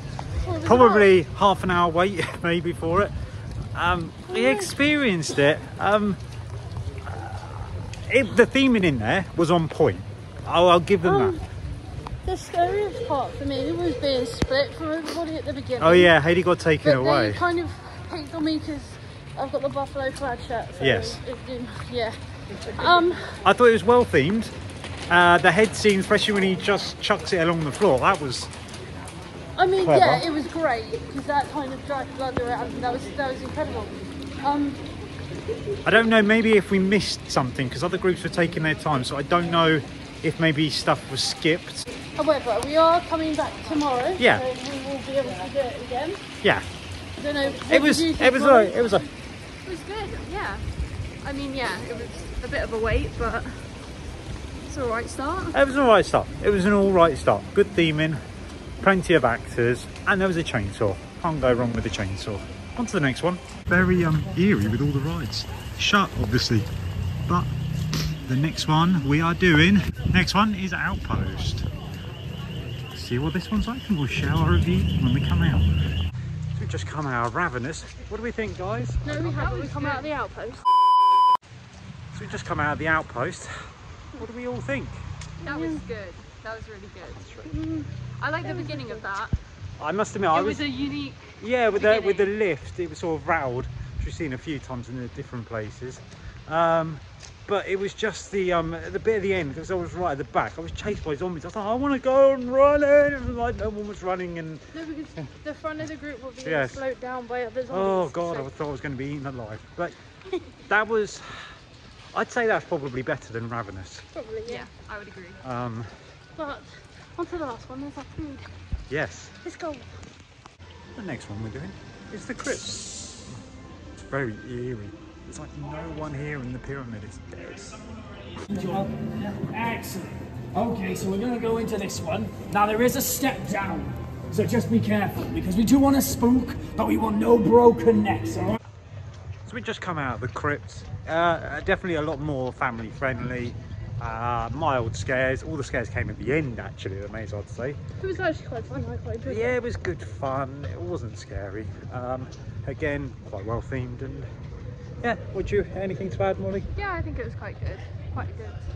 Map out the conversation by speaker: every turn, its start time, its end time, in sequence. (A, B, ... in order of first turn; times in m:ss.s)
0:00.4-0:01.1 A
0:00.6-0:03.1 B
0:03.8-0:06.2 B
0:04.3-0:04.7 A
0:07.0-0:11.4 B
0:11.0-0:11.4 A
0:12.2-0:16.1 A
0:15.8-0:17.4 B
0:16.8-0:23.4 A
0:20.8-0:21.2 B
0:23.4-0:24.5 B
0:25.1-0:28.5 B
0:29.6-0:34.8 A
0:29.8-0:30.2 B
0:35.8-0:41.9 B
0:42.2-0:46.2 A
0:44.2-0:44.4 B
0:47.2-0:49.0 A
0:47.7-0:49.1 B
0:49.6-0:50.2 A
0:50.2-0:50.6 C
0:51.2-0:53.7 C
0:54.7-0:55.6 C
0:55.5-0:58.2 B
0:58.8-1:06.7 B
1:08.2-1:11.6 B
1:12.9-1:15.7 B
1:16.6-1:19.2 B
1:19.0-1:20.6 A
1:19.2-1:20.0 C
1:22.1-1:23.5 B
1:24.2-1:25.0 B
1:25.4-1:25.8 A
1:25.4-1:27.2 C
1:27.0-1:27.5 B
1:27.4-1:27.9 A
1:28.2-1:29.4 C
1:28.4-1:29.0 A
1:29.8-1:30.7 B
1:30.3-1:31.2 C
1:31.4-1:44.6 B
1:31.8-1:32.3 C
1:44.7-1:48.5 A
1:46.4-1:46.8 B
1:47.7-1:49.9 B
1:50.7-1:51.4 B
1:52.1-1:54.0 B
1:54.1-1:54.7 A
1:54.5-1:55.4 C
1:55.4-1:55.9 B
1:56.4-1:58.4 A
1:58.9-1:59.3 B
1:59.4-1:59.9 A
2:00.9-2:03.3 B
2:04.1-2:07.8 B
2:08.5-2:18.6 D
2:19.4-2:27.8 B
2:28.0-2:29.6 A
2:29.2-2:34.3 B
2:35.0-2:36.7 B
2:36.8-2:38.6 C